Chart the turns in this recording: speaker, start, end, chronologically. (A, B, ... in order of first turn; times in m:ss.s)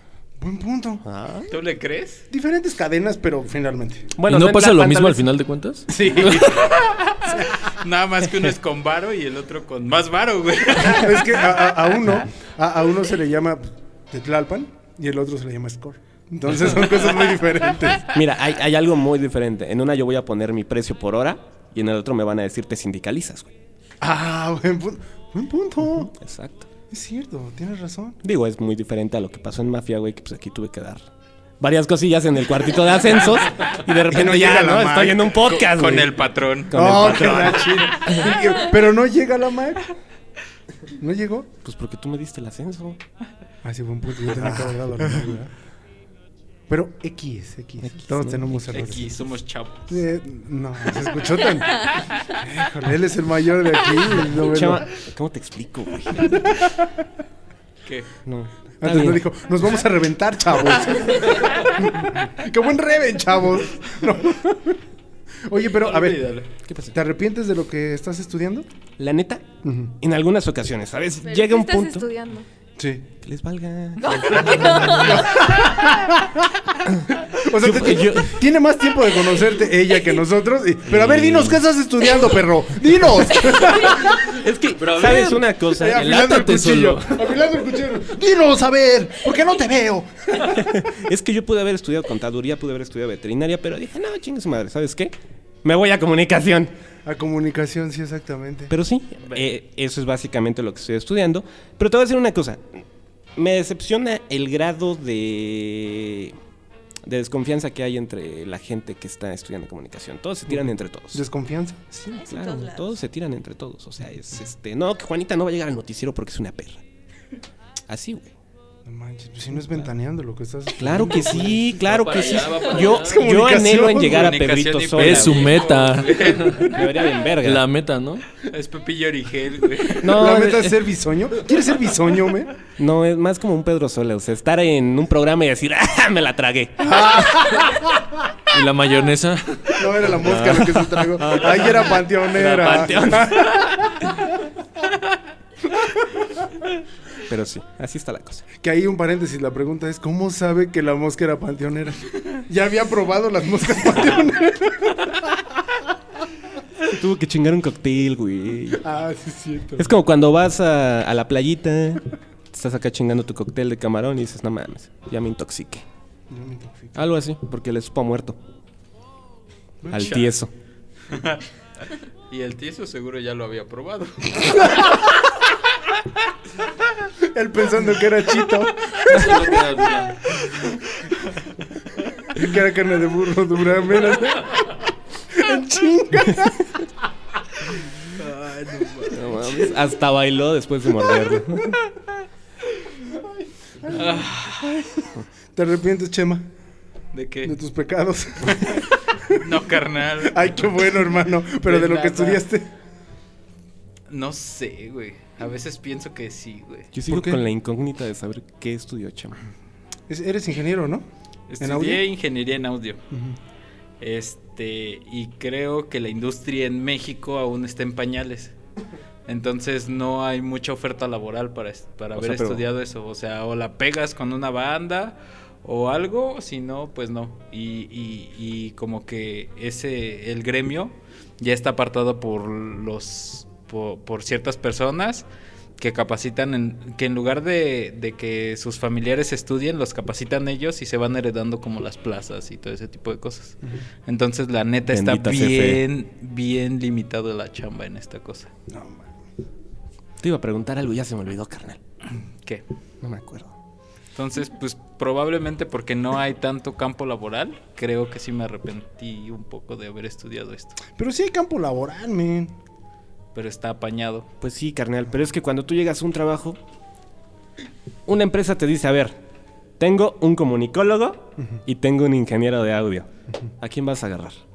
0:00.4-0:01.0 A
0:01.0-0:01.5 B
0:01.5-0:02.2 C
0:02.3-0:04.1 A
0:04.2-0:05.3 B
0:04.2-0:06.7 D
0:05.9-0:06.7 A
0:07.0-0:11.6 C
0:07.4-0:07.7 A
0:10.8-0:18.1 A
0:18.1-0:23.5 B
0:24.0-0:26.1 A
0:26.0-0:26.7 B
0:26.9-0:28.2 A
0:28.2-0:31.1 B
0:31.6-0:36.2 B
0:34.1-0:35.4 A
0:35.4-0:38.2 C
0:36.7-0:37.7 B
0:36.7-0:39.9 A
0:40.9-0:41.5 A
0:41.6-0:43.0 B
0:43.6-0:45.5 A
0:44.4-0:45.2 B
0:46.7-0:49.1 A
0:47.8-0:48.6 B
0:48.7-0:50.0 C
0:49.9-0:54.9 A
0:54.3-0:56.5 B
0:56.2-0:56.9 A
0:58.3-0:59.2 B
0:58.8-1:04.8 A
1:05.5-1:06.3 A
1:05.7-1:06.5 C
1:06.7-1:07.0 B
1:06.9-1:08.7 A
1:09.0-1:12.1 B
1:09.6-1:09.9 A
1:11.2-1:12.5 E
1:12.8-1:13.1 A
1:13.2-1:15.3 B
1:14.0-1:15.4 E
1:14.6-1:16.5 A
1:16.9-1:18.4 B
1:17.1-1:24.4 A
1:20.9-1:21.5 B
1:21.0-1:21.6 D
1:24.1-1:26.6 B
1:24.8-1:25.5 D
1:25.8-1:30.8 A
1:26.2-1:27.3 D
1:30.5-1:36.7 B
1:37.0-1:38.7 A
1:38.7-1:42.8 B
1:43.4-1:46.4 B
1:47.0-1:51.2 B
1:50.5-1:52.0 A
1:52.1-1:53.0 E
1:52.1-1:56.8 B
1:57.9-1:58.3 B
1:58.8-2:01.7 A
2:00.8-2:05.6 B
2:01.8-2:03.2 D
2:03.0-2:04.4 A
2:04.0-2:06.8 C
2:05.0-2:06.8 D
2:06.6-2:07.6 B
2:07.4-2:08.2 D
2:08.4-2:10.2 C
2:10.0-2:10.9 B
2:10.1-2:12.6 A
2:12.8-2:17.5 B
2:16.8-2:18.1 A
2:18.5-2:20.0 D
2:19.8-2:24.2 A
2:20.2-2:24.0 B
2:27.3-2:28.4 B
2:28.6-2:35.3 A
2:36.9-2:38.8 B
2:38.8-2:39.9 A
2:39.8-2:45.9 B
2:46.3-2:47.0 A
2:47.0-2:48.4 B
2:49.8-2:50.2 A
2:49.9-2:50.5 B
2:49.9-2:50.3 C
2:51.1-2:51.4 C
2:52.3-2:54.9 C
2:57.3-2:59.6 A
2:59.1-3:00.4 D
3:02.3-3:06.9 A
3:08.1-3:09.7 C
3:09.1-3:11.8 B
3:13.8-3:16.5 A
3:13.9-3:14.8 C
3:17.1-3:17.6 C
3:17.4-3:19.4 A
3:19.4-3:20.8 C
3:20.2-3:22.7 A
3:21.6-3:22.4 C
3:24.1-3:26.9 C
3:26.9-3:29.4 B
3:27.1-3:27.4 A
3:30.1-3:31.0 A
3:31.5-3:33.0 C
3:31.6-3:32.0 A
3:33.1-3:33.4 A
3:34.0-3:38.5 C
3:39.3-3:55.3 C
3:42.2-3:42.7 B
3:55.8-4:08.5 C
4:04.9-4:05.8 B
4:08.7-4:09.2 A
4:10.2-4:11.8 B
4:13.0-4:13.6 B
4:14.2-4:20.8 C
4:20.9-4:22.5 A
4:23.4-4:24.3 C
4:24.4-4:26.6 B
4:28.1-4:29.2 B
4:29.8-4:33.1 B
4:33.6-4:34.4 B